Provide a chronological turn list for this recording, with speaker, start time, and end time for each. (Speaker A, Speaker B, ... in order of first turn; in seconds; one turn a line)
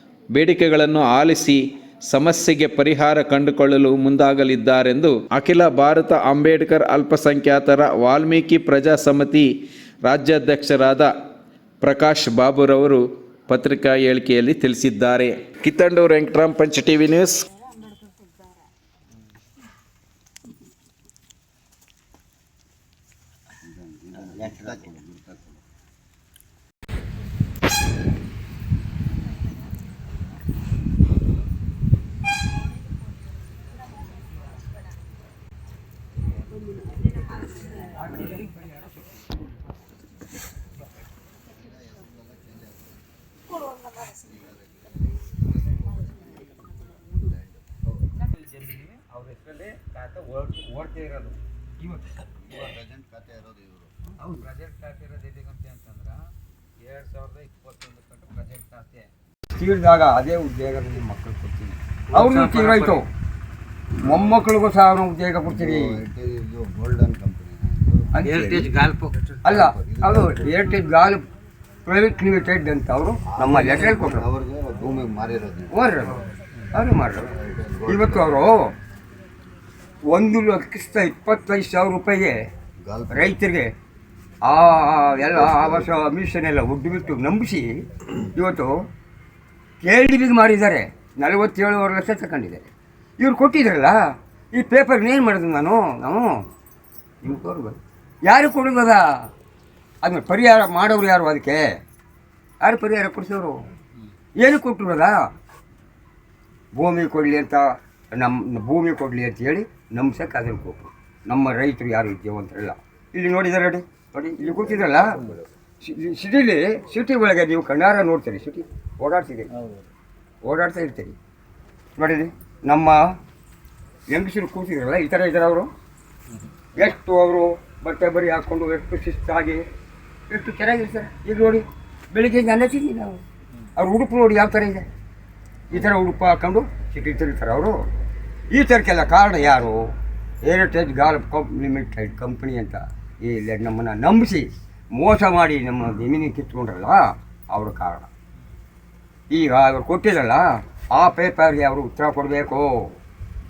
Speaker A: 0.3-9.5
Speaker A: 10.1-11.1
Speaker A: 11.8-17.4
Speaker B: 23.7-25.5
Speaker C: 38.1-38.4
Speaker B: 41.6-43.0
Speaker B: 43.8-47.7
Speaker C: 48.0-52.1
Speaker B: 52.5-54.0
Speaker C: 54.2-56.2
Speaker C: 56.8-59.1
Speaker D: 59.5-63.1
Speaker C: 62.1-63.0
Speaker D: 64.0-66.0
Speaker B: 65.5-68.4
Speaker D: 68.1-68.7
Speaker C: 68.2-69.4
Speaker D: 69.4-71.3
Speaker B: 69.5-70.3
Speaker D: 71.9-74.3
Speaker B: 73.4-75.7
Speaker D: 75.7-77.3
Speaker B: 77.3-78.3
Speaker D: 77.8-78.7
Speaker D: 80.1-82.4
Speaker B: 82.9-83.3
Speaker D: 83.1-83.7
Speaker D: 84.5-87.7
Speaker B: 85.5-85.8
Speaker D: 88.3-88.7
Speaker D: 89.8-92.7
Speaker D: 93.2-94.0
Speaker D: 94.5-96.4
Speaker D: 97.2-99.1
Speaker D: 100.0-101.7
Speaker D: 102.6-103.6
Speaker D: 104.4-105.2
Speaker D: 106.8-115.3
Speaker B: 114.5-115.4
Speaker D: 115.8-119.5
Speaker D: 120.5-121.2
Speaker D: 122.0-123.0
Speaker D: 124.1-125.7
Speaker D: 126.8-129.6
Speaker D: 130.3-133.2
Speaker D: 133.8-134.9
Speaker D: 135.7-137.8
Speaker D: 138.5-139.9
Speaker D: 140.4-148.1
Speaker D: 149.3-152.9